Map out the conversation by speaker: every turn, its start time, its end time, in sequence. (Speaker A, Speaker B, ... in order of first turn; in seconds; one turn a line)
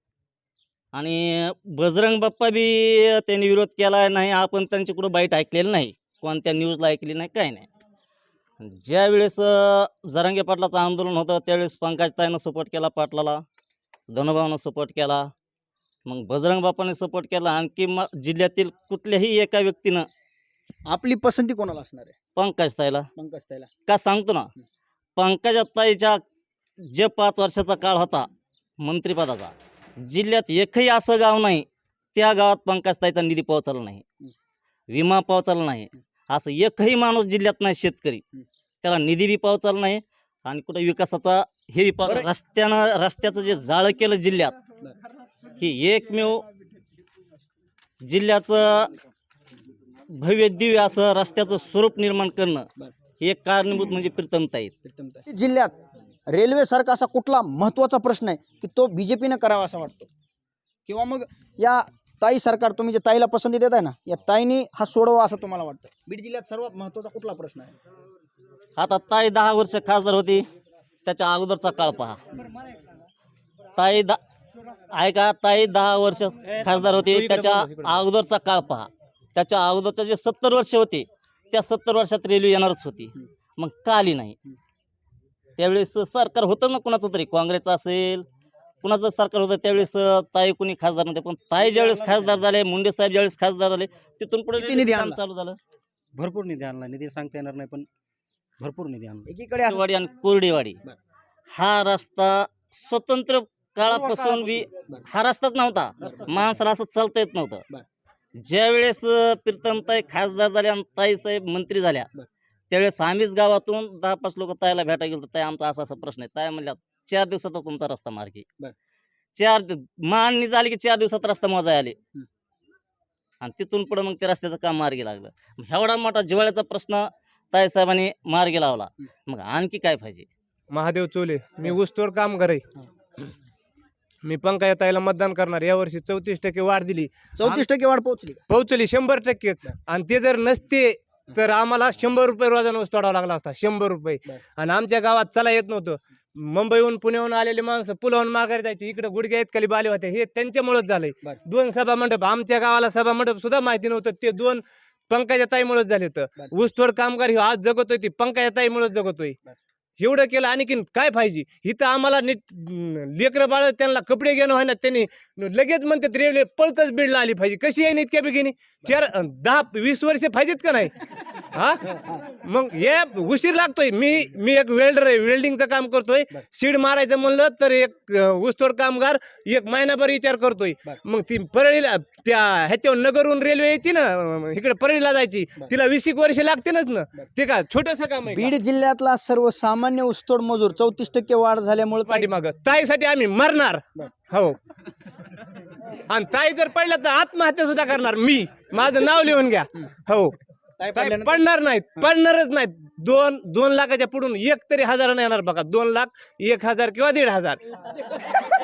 Speaker A: 0.9-7.7
Speaker A: 8.6-13.4
Speaker A: 14.1-15.3
Speaker A: 16.1-20.1
Speaker B: 20.9-22.1
Speaker A: 22.4-23.1
Speaker B: 23.1-23.7
Speaker A: 23.9-24.5
Speaker A: 25.2-26.2
Speaker A: 26.8-28.3
Speaker A: 28.8-34.0
Speaker A: 34.9-38.2
Speaker A: 38.8-44.6
Speaker A: 45.6-46.5
Speaker A: 48.0-48.9
Speaker A: 50.2-52.7
Speaker A: 53.2-54.7
Speaker B: 54.8-55.7
Speaker B: 56.3-60.1
Speaker B: 60.9-67.7
Speaker A: 68.8-70.5
Speaker A: 71.0-72.2
Speaker A: 73.8-74.2
Speaker A: 74.9-84.3
Speaker A: 85.6-88.2
Speaker A: 88.8-95.6
Speaker B: 94.5-95.2
Speaker C: 96.2-97.8
Speaker C: 98.7-99.2
Speaker B: 99.2-99.8
Speaker A: 99.7-100.8
Speaker A: 101.5-107.6
Speaker B: 103.9-104.3
Speaker B: 106.0-106.4
Speaker A: 108.4-112.1
Speaker A: 112.7-118.5
Speaker A: 119.3-122.0
Speaker A: 123.4-130.3
Speaker D: 130.7-132.6
Speaker D: 134.2-137.6
Speaker B: 137.3-138.4
Speaker D: 138.5-159.3
Speaker D: 160.0-170.9
Speaker D: 171.5-171.9
Speaker D: 172.4-188.5
Speaker B: 188.3-192.3
Speaker D: 192.1-194.6
Speaker D: 196.1-200.3
Speaker B: 200.8-201.5
Speaker D: 200.9-207.6